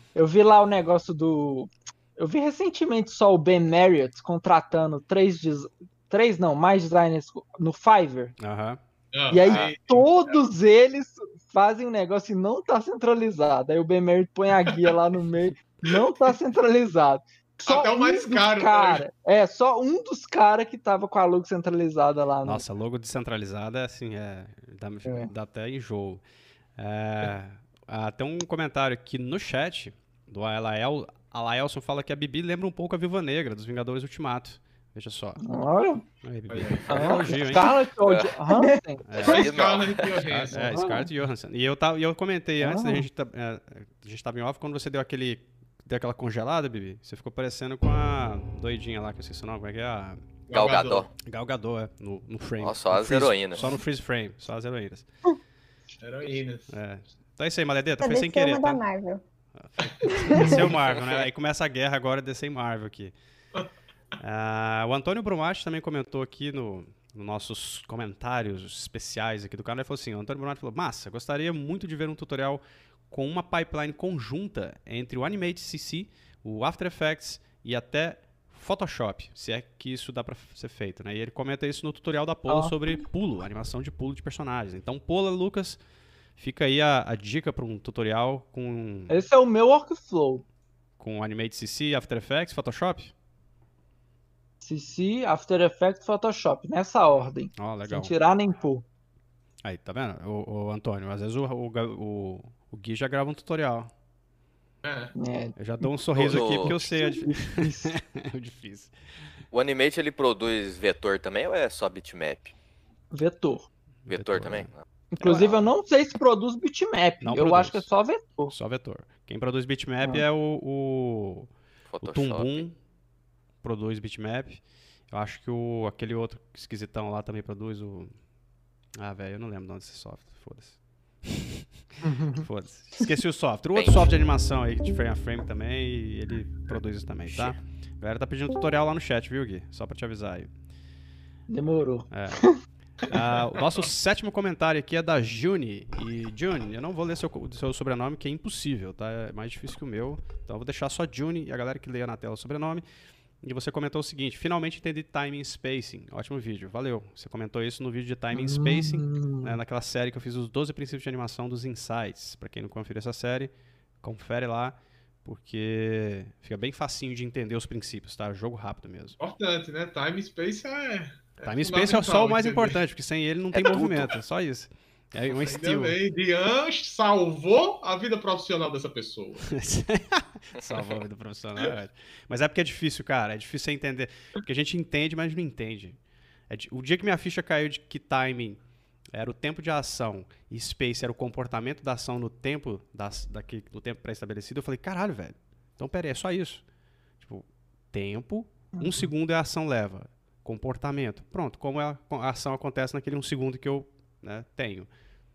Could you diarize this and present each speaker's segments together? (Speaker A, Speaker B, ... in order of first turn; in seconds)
Speaker A: 0.1-8.3, 9.3-22.6, 25.0-25.3, 35.4-36.0, 36.9-39.1, 40.5-41.1, 42.6-43.0, 82.5-82.7, 89.1-90.4, 94.6-98.8, 105.2-107.9, 113.1-113.7, 115.1-118.5, 132.0-132.4, 141.5-142.6, 158.3-159.6, 198.7-199.1
Speaker B: 8.4-8.8, 9.4-9.7, 22.4-26.2, 26.8-35.4, 36.2-37.7, 39.1-39.5, 40.2-50.4, 51.2-55.0, 56.7-58.8, 59.6-63.1, 64.2-85.8, 86.4-89.1, 91.0-93.1, 97.6-98.1, 99.6-103.9, 105.6-108.9, 114.1-115.4, 117.2-117.9, 118.5-121.5, 122.0-122.8, 123.6-128.1, 128.9-131.7, 132.3-140.5, 142.1-142.4, 143.1-152.8, 153.4-169.2, 171.4-176.0, 179.5-186.0, 186.5-188.6, 189.1-196.6, 197.2-204.9
Speaker C: 9.1-10.3, 17.6-19.0, 36.5-37.3, 39.2-40.8, 50.5-51.1, 56.0-56.8, 59.8-60.2, 104.8-105.1, 143.1-143.6, 169.2-172.8, 175.4-179.5
Speaker D: 38.0-38.4, 39.1-40.3, 50.5-51.1, 52.6-53.7, 106.2-106.8, 109.5-112.5, 114.1-115.5, 121.9-122.6, 133.7-134.1, 173.5-174.1
Speaker E: 58.0-59.2, 60.0-60.8